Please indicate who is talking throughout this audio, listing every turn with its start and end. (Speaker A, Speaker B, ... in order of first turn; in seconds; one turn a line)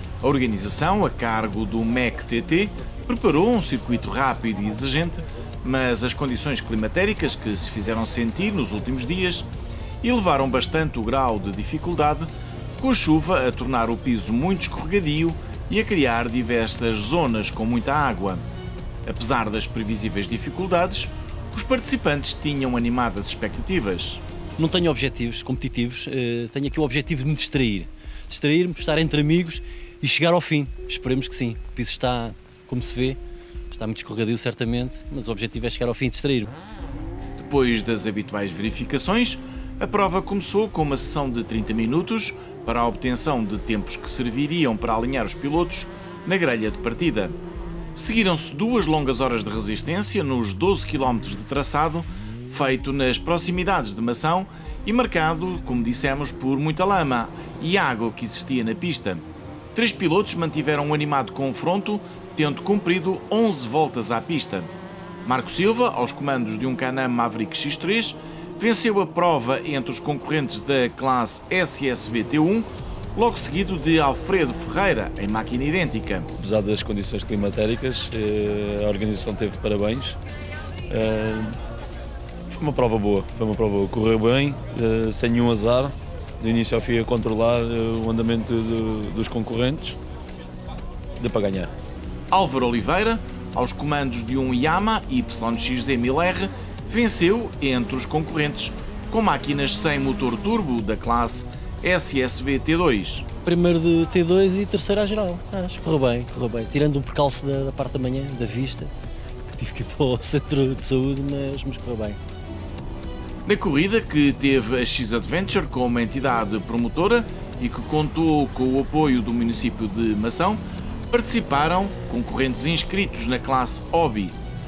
Speaker A: 0.2-9.5
Speaker A: 10.0-18.5
Speaker A: 19.1-24.2
Speaker B: 24.6-33.2
Speaker B: 33.7-36.5
Speaker A: 37.4-47.4
Speaker A: 48.0-64.7
Speaker A: 65.2-76.3
Speaker C: 76.4-80.2
Speaker C: 80.9-81.6
Speaker C: 82.5-90.0
Speaker C: 91.2-91.7
Speaker A: 92.3-103.3
Speaker B: 103.5-108.9
Speaker B: 109.5-112.2
Speaker A: 113.5-124.4